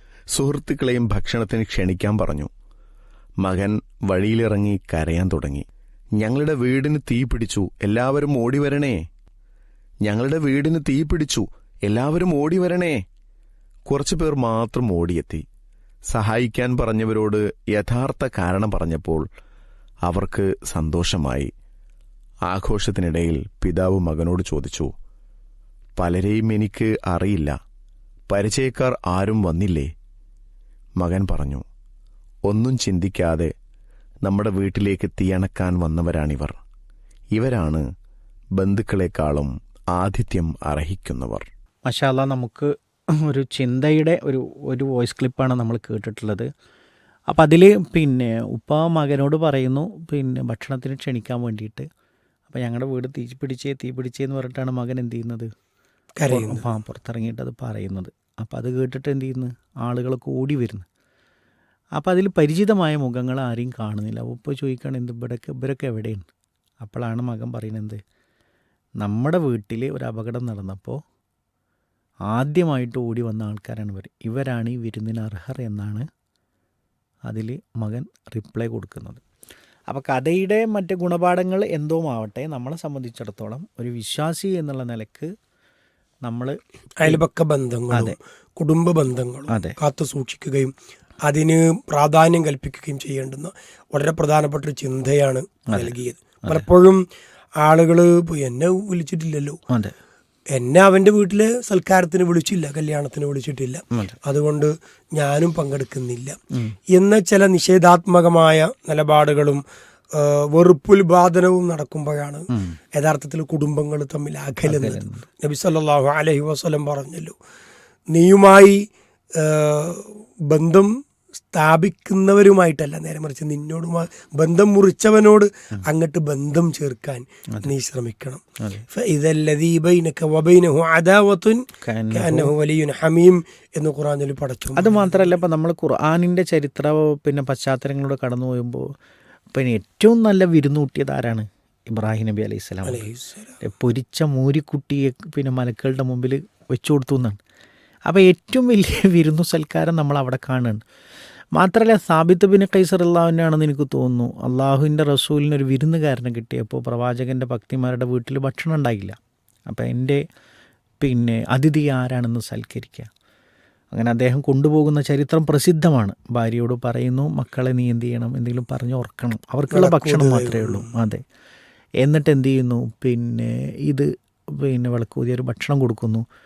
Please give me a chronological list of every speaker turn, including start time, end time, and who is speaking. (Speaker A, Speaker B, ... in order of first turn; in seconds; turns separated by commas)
Speaker A: 0.3-2.5, Speaker A: 3.4-5.7, Speaker A: 6.2-9.0, Speaker A: 10.0-13.0, Speaker A: 13.9-15.4, Speaker A: 16.1-19.2, Speaker A: 20.1-21.5, Speaker A: 22.5-24.9, Speaker A: 26.0-27.6, Speaker A: 28.3-29.9, Speaker A: 31.0-31.6, Speaker A: 32.5-33.5, Speaker A: 34.2-36.5, Speaker A: 37.3-37.8, Speaker A: 38.6-41.5, Speaker B: 41.9-42.7, Speaker B: 43.2-46.5, Speaker B: 47.3-51.9, Speaker B: 52.5-55.5, Speaker C: 56.2-56.6, Speaker B: 56.3-60.9, Speaker B: 62.0-66.3, Speaker B: 66.8-68.0, Speaker B: 69.0-71.0, Speaker B: 72.3-76.1, Speaker B: 77.3-79.2, Speaker B: 79.9-85.3, Speaker B: 86.2-87.2, Speaker C: 87.0-90.7, Speaker B: 89.5-89.8, Speaker C: 91.2-97.0, Speaker C: 97.6-99.6, Speaker C: 100.5-106.4, Speaker C: 106.9-109.6, Speaker C: 110.1-117.3, Speaker B: 114.6-115.2, Speaker C: 118.1-118.8, Speaker C: 119.4-120.9, Speaker C: 121.4-131.6, Speaker B: 131.8-132.5, Speaker C: 132.1-135.2, Speaker B: 134.8-138.9, Speaker B: 139.5-143.1, Speaker C: 142.8-143.5, Speaker B: 143.6-147.4, Speaker B: 148.1-150.8, Speaker B: 151.6-159.2, Speaker B: 159.7-160.2, Speaker B: 161.0-163.1, Speaker B: 163.9-171.2, Speaker C: 169.7-170.9, Speaker B: 172.0-176.2